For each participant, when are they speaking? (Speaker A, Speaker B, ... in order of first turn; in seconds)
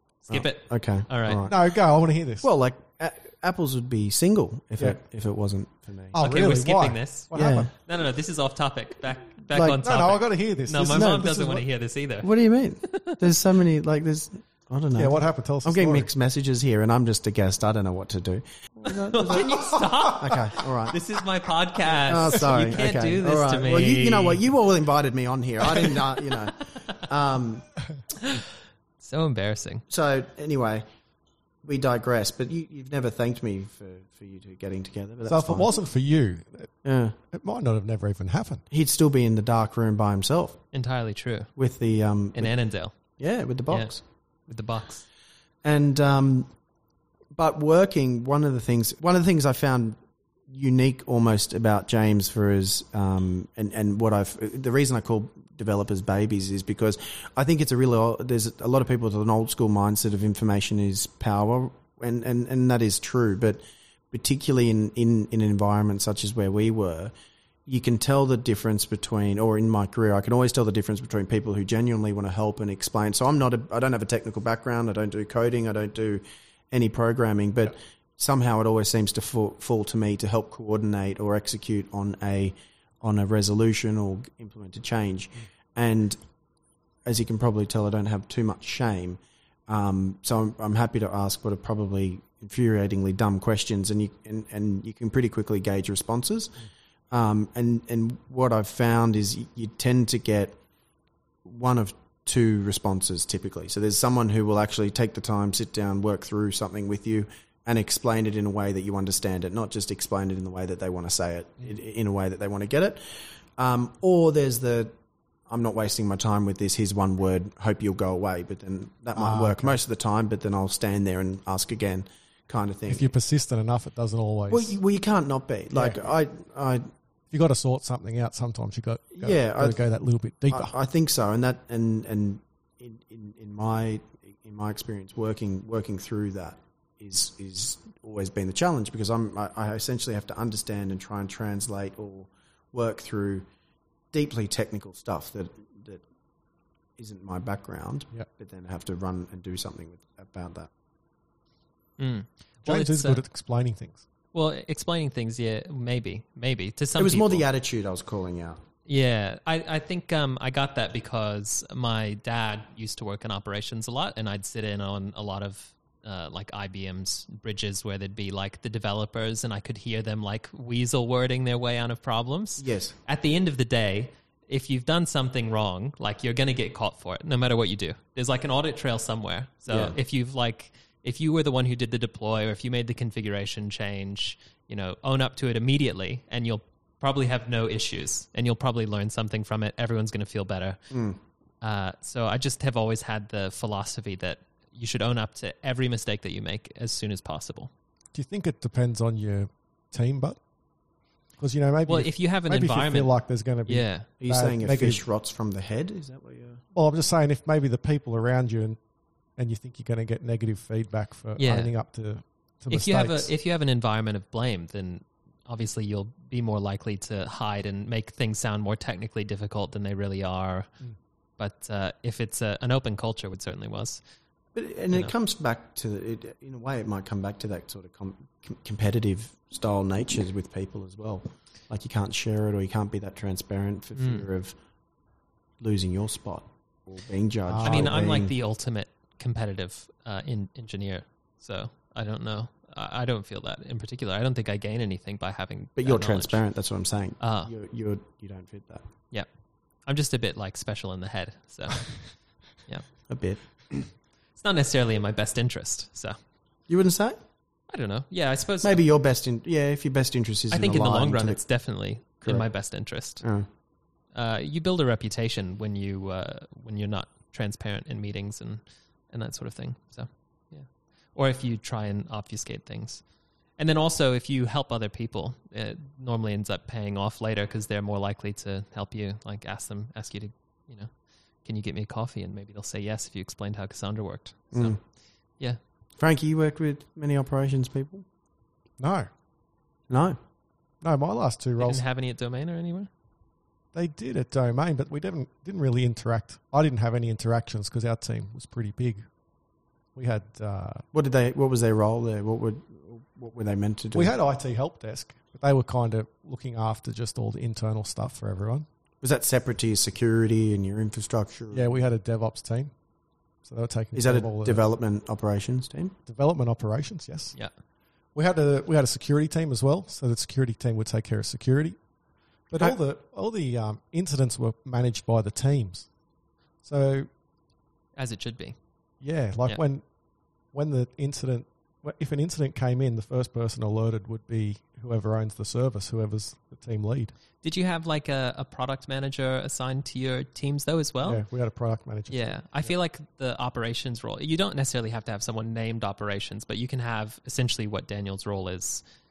Speaker A: 0.2-1.5, 6.2-12.3, 12.8-13.2, 18.9-24.4, 25.7-26.1, 28.2-28.4, 29.0-29.8, 40.7-41.5, 42.3-43.1, 43.7-45.1, 152.0-153.2, 154.3-157.4, 158.8-190.9, 191.6-197.7, 201.9-203.1, 203.7-204.1, 211.4-211.7, 212.7-220.7, 221.4-224.0, 234.0-234.3, 237.6-246.4, 247.2-247.5, 249.8-253.1, 254.3-256.1, 257.7-258.8, 260.5-263.2, 264.1-273.0, 273.6-280.9, 281.4-285.6, 291.6-292.9, 327.9-328.6, 337.4-341.2, 342.1-348.8
Speaker B: 0.3-1.6, 2.4-6.2, 7.3-7.7, 10.8-11.4, 12.2-21.0, 22.0-27.7, 29.9-30.8, 31.6-35.7, 36.8-37.1, 38.7-40.6, 41.5-42.5, 43.0-44.0, 45.6-46.5, 47.3-50.0, 50.5-67.1, 67.7-86.2, 87.0-96.6, 97.1-100.6, 101.4-114.9, 115.5-123.0, 124.5-126.9, 129.2-129.8, 130.5-143.5, 144.1-146.0, 147.0-150.7, 157.0-158.6, 172.6-172.9, 179.7-179.9, 190.9-191.2, 204.2-206.6, 224.5-234.6, 235.6-238.3, 245.8-248.8, 253.1-253.8, 256.7-257.2, 258.6-261.4, 263.2-263.5, 286.0-288.0, 289.9-290.2, 300.9-304.1, 309.0-311.8, 313.9-315.9
Speaker C: 1.5-2.5, 6.1-7.7, 9.6-11.6, 14.9-16.1, 35.2-38.6, 119.1-119.8, 122.9-124.8, 127.3-130.7, 152.6-154.0, 198.1-200.4, 201.4-205.0, 206.7-208.8, 209.3-213.3, 237.5-238.1, 288.8-289.1, 290.8-291.8, 293.7-299.1, 299.9-300.8, 303.9-308.6, 311.5-312.7, 313.4-314.6, 316.1-317.4, 318.1-321.8, 322.5-325.9, 326.6-327.1, 329.0-329.8, 330.5-337.1, 341.0-342.2